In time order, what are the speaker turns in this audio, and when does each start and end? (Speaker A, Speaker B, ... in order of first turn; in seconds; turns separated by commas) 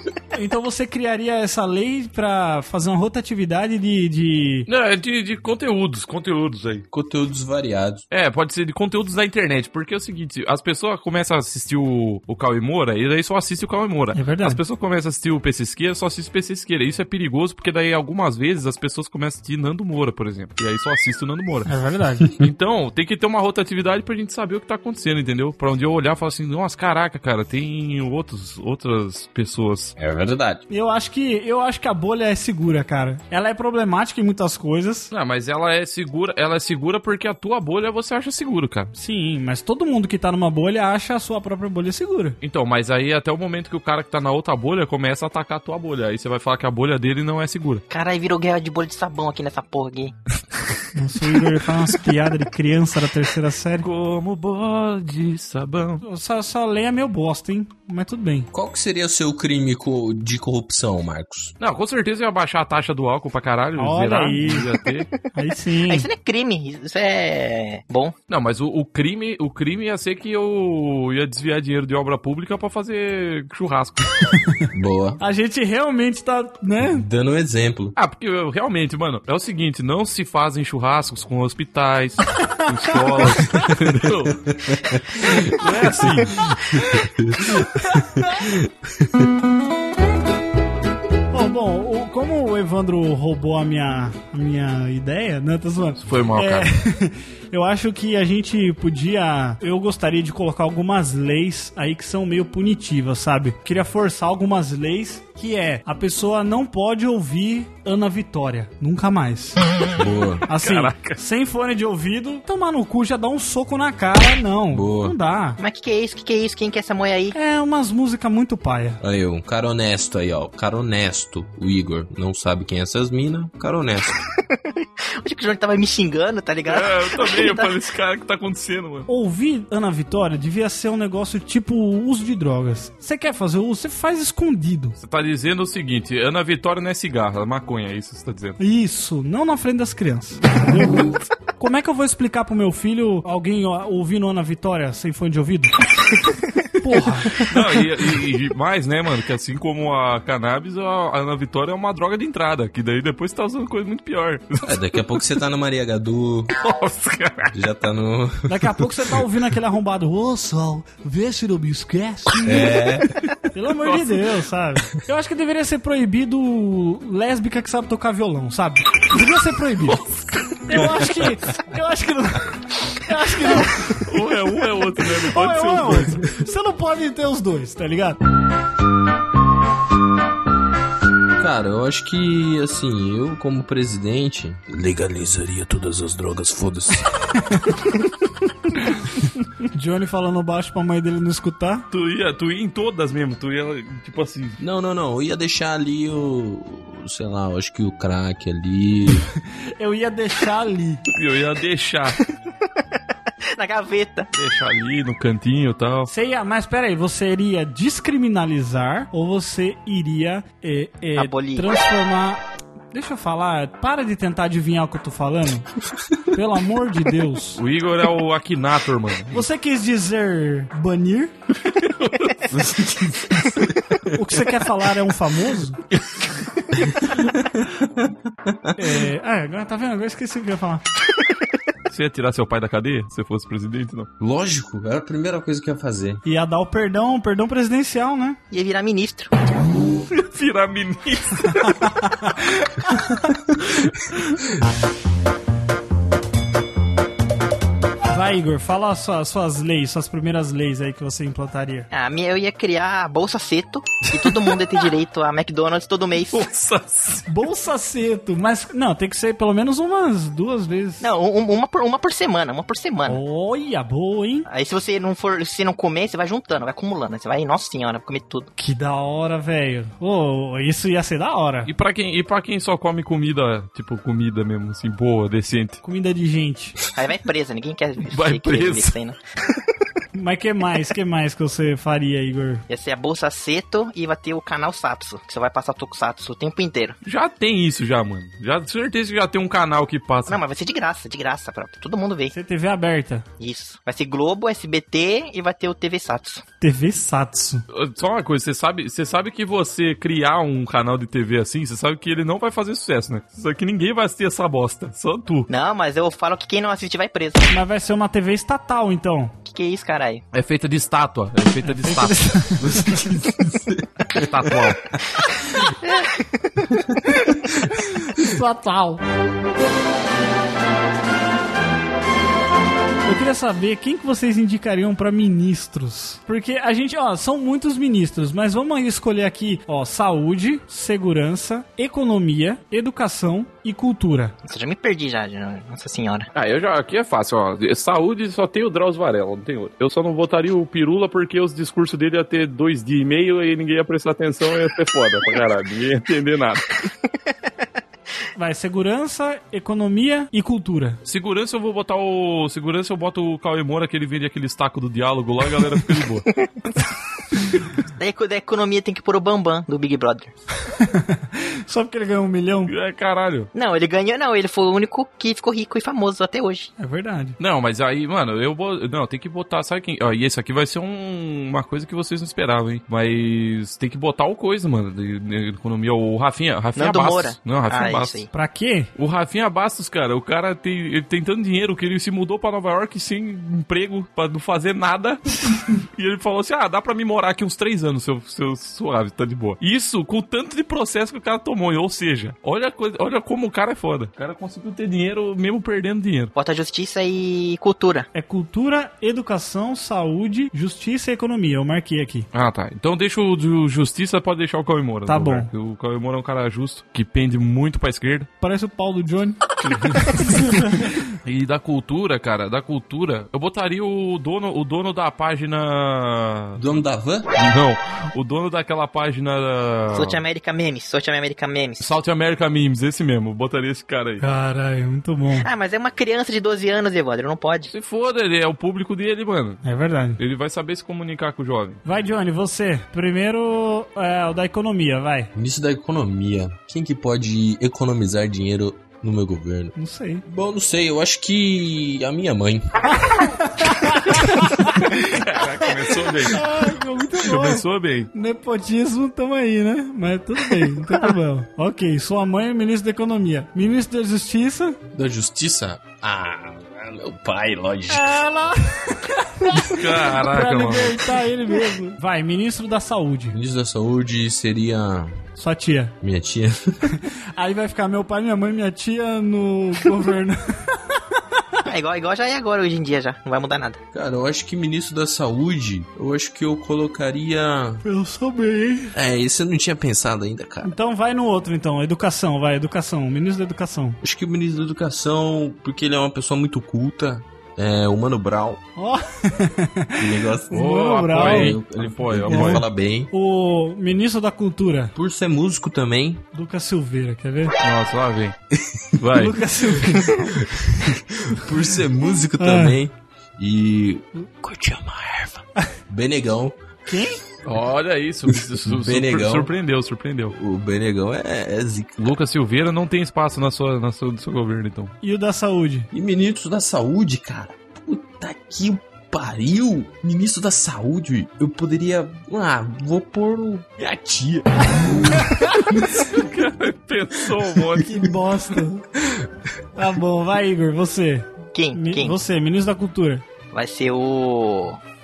Speaker A: 0.3-4.7, Speaker B: 4.7-6.8, Speaker C: 6.9-8.0, Speaker B: 8.1-21.7, Speaker A: 14.1-14.6, Speaker A: 21.6-22.3, Speaker B: 22.3-29.9, Speaker C: 30.0-30.6, Speaker A: 30.7-35.1, Speaker B: 35.1-38.9, Speaker A: 38.9-42.4, Speaker B: 42.4-47.8, Speaker D: 47.9-50.1, Speaker A: 50.9-53.9, Speaker B: 53.8-56.0, Speaker A: 56.0-58.5, Speaker C: 58.5-61.5, Speaker B: 61.6-65.1, Speaker A: 63.8-64.7, Speaker A: 65.3-66.1, Speaker D: 65.9-68.1, Speaker B: 68.3-74.2, Speaker C: 74.7-75.2, Speaker A: 75.2-77.0, Speaker C: 76.8-77.9, Speaker B: 78.0-84.4, Speaker A: 82.4-83.7, Speaker C: 84.3-89.3, Speaker B: 85.2-86.6, Speaker A: 87.9-88.4, Speaker A: 91.3-109.6, Speaker B: 96.0-96.7, Speaker C: 109.9-110.5, Speaker A: 110.5-115.6, Speaker B: 110.6-111.2, Speaker C: 114.7-115.2, Speaker D: 115.6-117.3, Speaker A: 117.3-119.0, Speaker C: 119.0-124.2, Speaker D: 124.5-127.7, Speaker B: 126.6-129.1, Speaker A: 129.1-135.0, Speaker B: 135.0-138.6, Speaker A: 138.6-145.7, Speaker A: 146.8-147.4, Speaker B: 147.3-154.8, Speaker C: 154.6-156.5, Speaker B: 156.6-157.5, Speaker C: 157.5-158.9, Speaker A: 158.5-162.9, Speaker C: 162.4-163.2, Speaker A: 163.5-170.0, Speaker B: 163.8-164.3, Speaker B: 169.8-170.8, Speaker A: 170.7-174.1, Speaker B: 173.9-176.2, Speaker A: 175.0-178.2, Speaker C: 181.4-187.3, Speaker A: 187.3-187.9, Speaker A: 189.7-191.9, Speaker B: 191.9-194.6, Speaker C: 194.6-199.3, Speaker A: 199.8-201.0, Speaker B: 201.1-202.2, Speaker D: 203.5-204.3, Speaker B: 204.3-206.1, Speaker A: 206.1-217.6, Speaker D: 211.2-211.7, Speaker B: 217.6-219.5, Speaker A: 219.3-221.3, Speaker B: 221.6-222.5, Speaker C: 222.5-224.0, Speaker A: 224.1-225.8, Speaker C: 226.9-228.9, Speaker A: 228.8-230.8, Speaker B: 231.9-234.1, Speaker C: 234.2-236.2, Speaker A: 236.2-238.4, Speaker D: 238.5-239.3, Speaker B: 240.0-241.9, Speaker A: 241.8-243.1, Speaker B: 243.7-244.4, Speaker A: 248.1-251.9, Speaker D: 251.9-256.5, Speaker B: 256.3-257.2, Speaker A: 257.2-261.1, Speaker D: 261.0-263.2, Speaker A: 263.1-264.5, Speaker D: 264.5-268.5, Speaker A: 268.6-271.7, Speaker B: 271.7-275.8, Speaker A: 275.8-276.8, Speaker D: 276.9-279.2, Speaker B: 278.0-278.9, Speaker A: 280.1-282.6, Speaker D: 282.7-287.0, Speaker B: 287.0-290.4, Speaker D: 290.3-292.3, Speaker A: 292.3-293.2, Speaker D: 293.4-296.4, Speaker A: 296.6-297.6, Speaker B: 297.7-305.5, Speaker D: 305.5-307.5, Speaker A: 307.5-309.3, Speaker D: 309.4-310.2, Speaker B: 310.3-312.8, Speaker A: 311.6-312.9, Speaker C: 312.6-314.5, Speaker B: 314.1-314.9, Speaker D: 315.8-316.8, Speaker A: 318.0-319.0, Speaker A: 323.1-334.3, Speaker D: 334.4-336.3, Speaker B: 336.3-346.8, Speaker A: 348.4-351.0, Speaker B: 351.0-356.3, Speaker D: 357.9-360.3, Speaker A: 360.7-362.7, Speaker B: 362.7-363.5, Speaker D: 363.5-366.7, Speaker A: 366.8-367.4, Speaker B: 367.4-378.2, Speaker D: 376.8-378.3, Speaker A: 378.3-378.9, Speaker B: 378.9-396.3, Speaker D: 396.3-398.1, Speaker A: 398.1-402.3, Speaker B: 402.3-408.3, Speaker A: 405.1-405.5, Speaker A: 408.4-409.4, Speaker B: 409.6-410.6, Speaker A: 410.0-411.0, Speaker B: 411.2-416.6, Speaker C: 416.6-417.3, Speaker B: 417.4-420.2, Speaker D: 419.9-421.9, Speaker B: 421.8-424.2, Speaker A: 424.2-425.5, Speaker D: 425.4-427.7, Speaker B: 427.7-429.6, Speaker A: 429.6-430.2, Speaker B: 430.2-431.8, Speaker A: 431.8-435.3, Speaker C: 435.3-439.7, Speaker A: 439.8-440.2, Speaker C: 440.2-443.1, Speaker A: 443.0-444.8, Speaker B: 444.6-448.1, Speaker A: 446.2-454.8, Speaker C: 454.9-458.2, Speaker A: 457.9-463.4, Speaker B: 459.6-461.1, Speaker C: 463.3-465.2, Speaker A: 465.4-465.9, Speaker C: 466.0-466.9, Speaker A: 466.9-471.0, Speaker D: 471.6-473.8, Speaker C: 473.9-477.8, Speaker A: 477.8-478.9, Speaker C: 478.9-480.7, Speaker A: 480.6-484.0, Speaker C: 484.0-488.6, Speaker A: 488.8-491.6, Speaker C: 490.0-493.1, Speaker B: 490.5-492.6, Speaker A: 492.3-494.9, Speaker C: 494.9-496.2, Speaker A: 496.3-497.5, Speaker B: 497.6-498.4, Speaker C: 498.5-499.0, Speaker B: 499.0-499.4, Speaker A: 499.1-500.5, Speaker C: 499.9-506.6, Speaker A: 502.4-502.8, Speaker A: 506.9-507.2, Speaker B: 507.4-510.3, Speaker C: 508.3-509.5, Speaker C: 510.3-512.2, Speaker B: 512.0-514.9, Speaker A: 515.0-515.9, Speaker C: 515.9-526.0, Speaker A: 525.1-525.7, Speaker B: 525.9-528.0, Speaker C: 527.4-527.8, Speaker A: 527.8-528.9, Speaker C: 529.0-529.3, Speaker A: 529.8-533.2, Speaker D: 531.5-532.2, Speaker D: 533.5-534.8